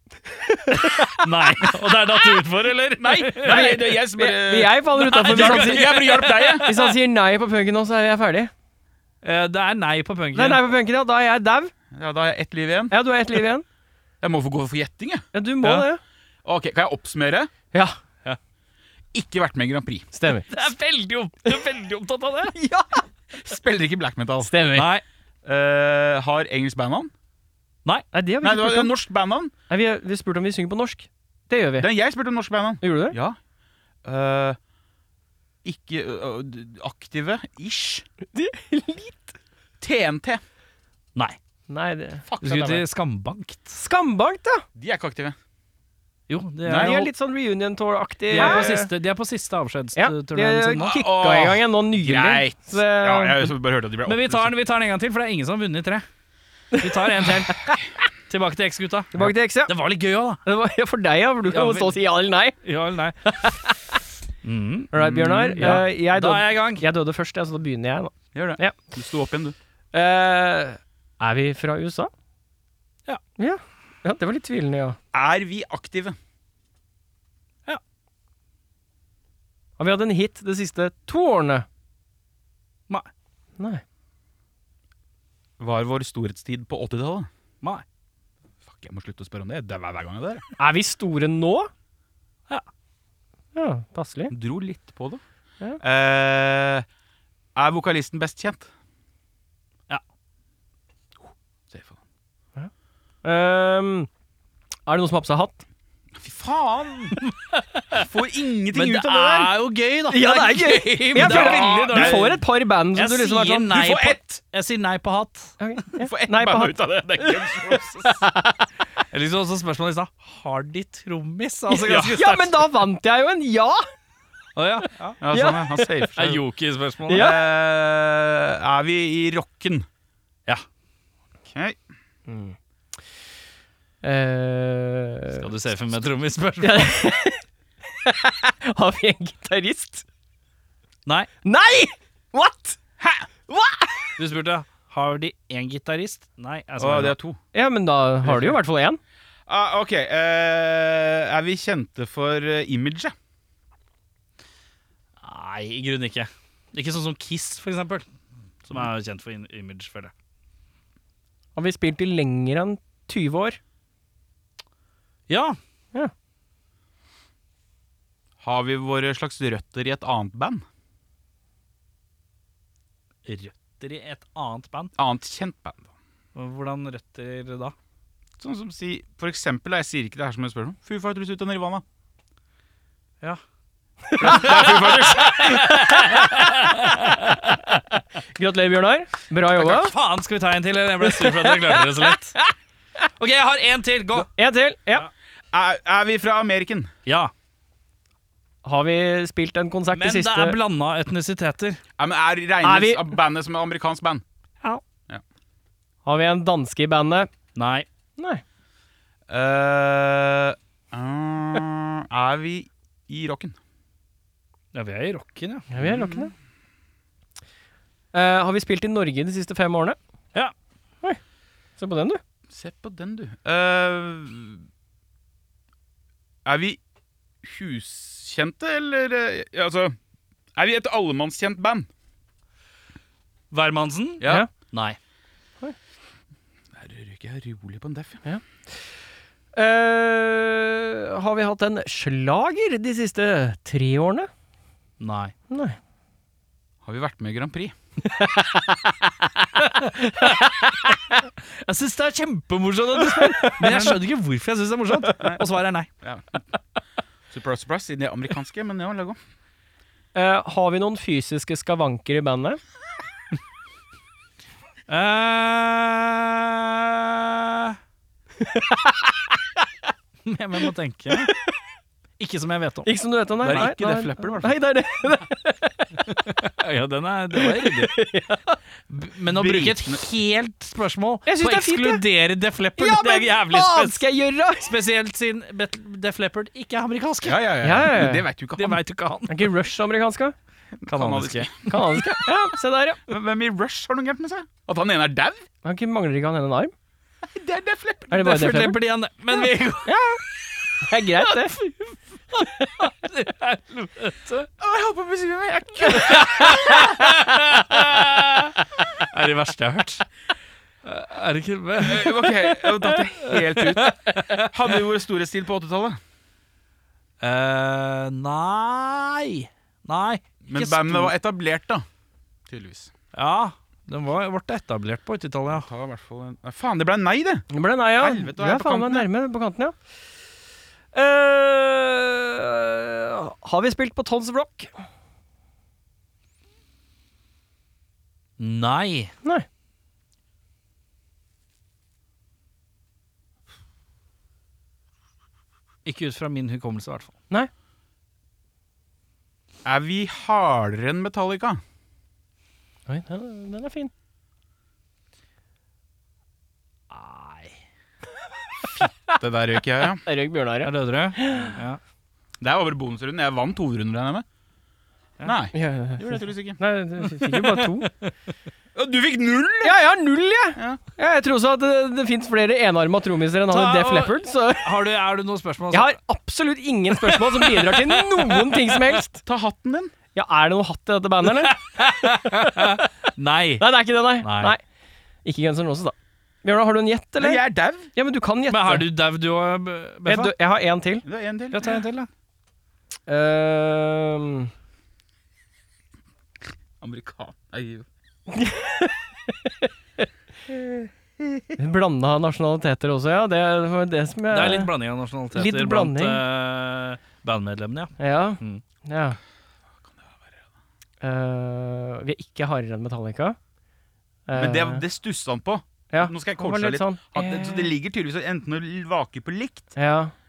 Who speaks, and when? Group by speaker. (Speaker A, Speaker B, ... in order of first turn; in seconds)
Speaker A: 0.4-1.7, 3.4-8.5, 10.3-11.7, 12.9-13.7, 15.3-16.0, 20.1-20.6, 22.6-23.0, 24.4-24.9, 28.1-28.9, 29.7-31.9, 32.8-33.2, 38.3-39.3, 41.7-42.3, 43.8-44.6, 46.8-48.9, 50.0-53.5, 56.7-57.8, 59.1-59.8, 60.4-62.6, 63.2-63.8, 64.9-68.8, 69.9-72.1, 73.4-75.0, 79.8-81.7, 90.6-91.7, 93.5-94.3, 103.2-104.1, 104.9-105.6, 110.1-113.7, 115.6-118.6, 122.1-123.9, 125.3-126.1, 127.1-127.4, 132.3-132.6, 134.0-135.5, 136.6-140.0, 141.4-142.8, 143.5-144.2, 147.5-149.0, 161.6-163.6, 184.1-184.4, 188.4-189.9, 191.0-192.5, 194.2-195.1, 198.6-200.6, 202.6-203.1, 206.1-207.3, 208.2-208.4, 215.7-216.3, 218.1-220.0, 221.8-222.2, 234.2-234.5, 239.5-244.3, 245.5-245.8, 248.1-248.8, 249.6-251.0, 253.0-254.0, 260.1-262.6, 268.4-269.4, 271.2-271.5, 272.9-276.3, 277.3-278.6, 281.3-282.0, 282.8-284.7, 287.6-288.3, 289.3-290.4, 291.7-293.0, 295.6-296.7, 298.1-298.8, 299.9-300.2, 300.8-301.6, 327.5-329.8, 330.9-334.7, 352.9-353.9, 360.0-361.6, 365.5-367.9, 369.6-374.8, 375.7-379.2, 380.1-382.8, 383.6-384.6, 385.2-387.4, 387.9-388.9, 390.1-391.1, 393.1-394.5, 398.3-399.7, 400.5-400.9, 401.6-404.7, 405.3-406.2, 408.0-409.2, 411.0-413.4, 414.3-414.8, 415.9-417.7, 419.8-420.1
Speaker B: 1.2-3.7, 5.0-7.0, 9.2-10.6, 20.5-22.6, 24.8-25.0, 42.4-43.8, 46.3-47.1, 48.3-50.9, 54.1-56.0, 56.8-57.6, 58.3-60.4, 61.5-62.0, 62.6-63.5, 64.4-65.0, 65.5-66.8, 107.2-108.0, 108.7-112.4, 113.0-115.6, 119.1-122.6, 124.6-125.2, 126.2-127.3, 135.3-136.9, 144.2-147.2, 148.3-148.5, 155.2-158.1, 158.7-160.1, 165.3-165.6, 173.2-174.9, 176.3-177.8, 184.2-187.6, 189.6-192.4, 193.2-194.3, 197.1-197.3, 199.9-201.8, 207.6-207.9, 214.7-215.7, 233.5-235.0, 245.0-245.3, 251.5-255.9, 264.9-267.8, 270.2-271.3, 272.2-272.9, 276.4-277.9, 278.9-284.0, 284.6-287.4, 288.6-289.5, 290.9-291.7, 298.1-300.0, 301.1-304.5, 305.9-310.1, 310.8-314.5, 317.2-321.1, 323.1-325.7, 338.4-339.1, 345.9-347.1, 356.9-357.6, 360.6-361.8, 367.2-368.1, 373.5-375.9, 377.0-378.8, 381.2-383.7, 384.2-384.6, 388.5-390.3, 391.5-392.1, 404.3-408.6
Speaker C: 3.0-6.7, 11.9-13.0, 14.2-15.9, 16.4-17.5, 19.1-20.1, 23.3-24.5, 25.4-27.1, 28.4-29.5, 31.8-33.4, 34.0-34.6, 35.6-38.0, 39.8-40.4, 42.3-42.8, 44.8-45.4, 46.6-47.1, 48.4-48.7, 50.8-54.5, 65.0-65.8, 68.3-69.5, 75.1-76.2, 85.6-87.3, 88.7-90.5, 94.3-95.2, 95.8-96.9, 97.6-98.7, 101.7-102.0, 106.2-107.2, 107.9-109.5, 111.2-112.4, 113.7-114.4, 116.0-118.2, 121.8-122.2, 125.2-126.4, 127.1-129.9, 131.5-131.8, 143.0-143.3, 146.8-147.4, 149.5-153.1, 168.4-170.6, 175.0-175.8, 178.4-181.8, 184.2-185.8, 195.5-196.9, 202.0-204.2, 209.3-213.6, 215.8-216.3, 222.5-224.6, 226.4-226.8, 227.4-230.0, 230.6-231.9, 234.2-234.5, 236.7-238.2, 246.8-247.8, 256.0-256.4, 257.3-259.2, 273.4-274.6, 279.3-280.0, 287.2-288.8, 290.7-291.8, 293.1-295.5, 297.2-298.2, 304.6-307.0, 311.8-316.0, 320.5-321.9, 322.5-322.9, 325.5-329.1, 349.6-351.6, 359.1-360.0, 362.4-364.2, 365.2-366.6, 368.8-369.8, 370.6-370.8, 379.2-379.9, 387.2-387.9, 391.1-391.7, 396.8-397.9, 414.4-419.7